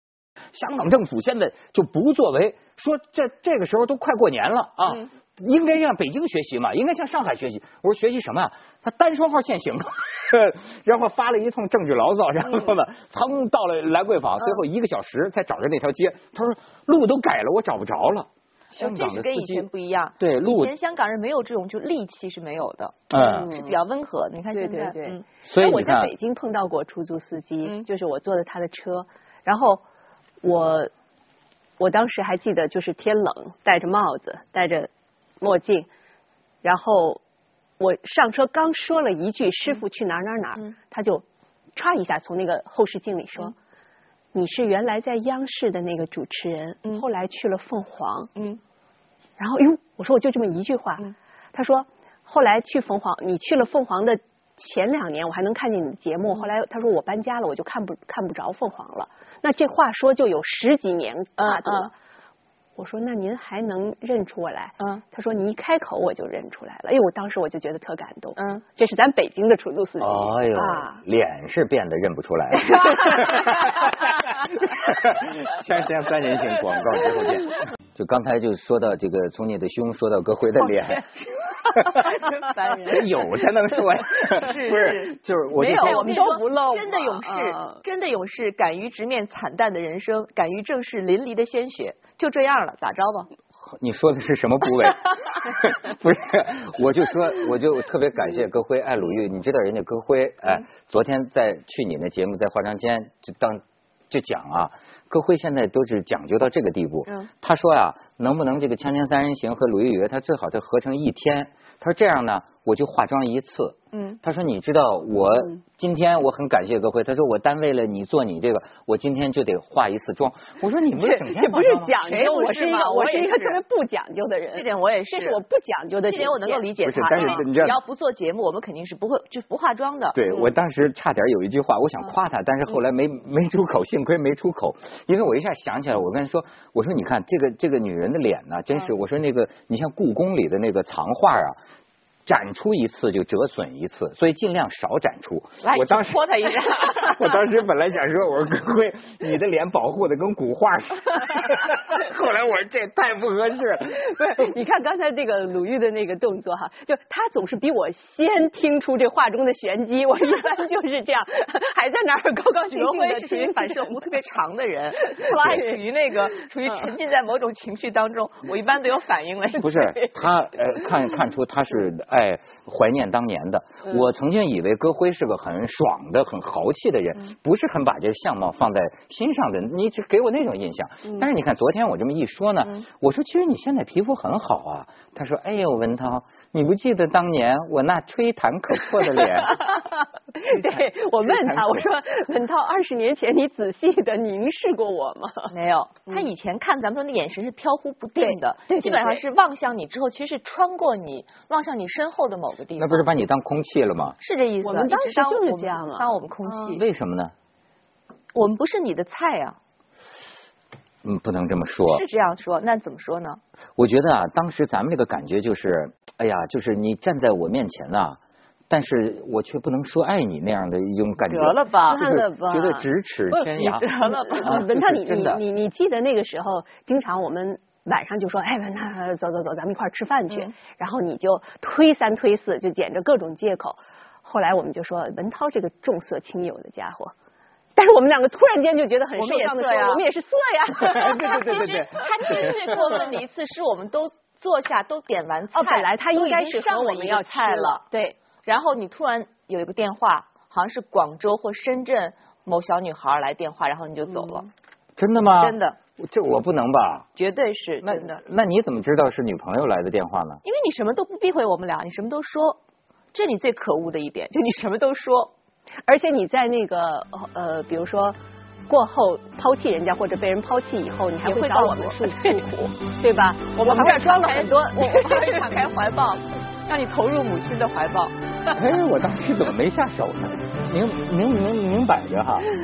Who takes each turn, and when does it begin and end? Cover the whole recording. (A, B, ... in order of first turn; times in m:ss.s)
0:00.5-0:19.7 A
0:18.8-0:25.2 B
0:20.2-0:20.7 A
0:23.1-0:23.5 A
0:23.2-0:23.8 C
0:24.5-0:29.8 C
0:25.4-0:26.1 A
0:30.4-0:30.9 C
0:31.8-0:34.9 C
0:35.4-0:35.9 C
0:36.6-0:37.2 C
0:37.8-0:41.2 C
0:41.8-0:43.6 C
0:44.3-0:48.3 C
0:49.4-1:01.9 C
1:01.4-1:01.9 B
1:02.8-1:11.0 C
1:08.4-1:08.6 B
1:10.0-1:21.1 A
1:12.7-1:13.8 C
1:20.7-1:21.0 B
1:21.6-1:26.2 A
1:22.0-1:23.2 B
1:24.2-1:33.3 B
1:25.5-1:27.8 C
1:33.7-2:02.0 A
1:53.9-1:54.2 B
2:01.0-2:06.7 C
2:02.0-2:03.6 B
2:04.5-2:05.4 B
2:06.1-2:10.2 B
2:06.8-2:07.8 A
2:10.2-2:21.6 A
2:22.3-2:34.4 A
2:25.6-2:27.3 B
2:34.2-2:44.0 C
2:42.7-2:49.8 B
2:45.1-2:45.8 C
2:49.6-3:09.8 A
2:49.7-2:50.1 C
3:09.6-3:15.5 C
3:11.3-3:11.8 A
3:15.5-3:23.1 B
3:18.2-3:19.2 C
3:22.8-3:24.2 A
3:24.2-3:26.8 B
3:24.6-3:26.1 C
3:26.7-3:27.3 A
3:28.3-3:29.6 B
3:31.0-3:32.0 A
3:31.9-3:33.4 B
3:33.8-3:38.2 A
3:38.7-3:45.4 A
3:41.3-3:42.0 B
3:41.9-3:57.1 C
3:43.6-3:44.6 B
3:57.8-4:03.1 C
3:59.2-4:00.0 B
4:00.9-4:02.7 A
4:00.9-4:07.8 B
4:05.5-4:08.2 C
4:08.4-4:14.5 B
4:15.0-4:17.1 A
4:15.4-4:15.8 B
4:17.2-4:18.2 B
4:17.8-4:20.4 A
4:20.4-4:22.6 B
4:23.1-4:25.3 B
4:25.9-4:28.2 C
4:28.7-4:35.5 C
4:31.2-4:32.4 B
4:33.6-4:38.2 B
4:38.5-4:42.5 A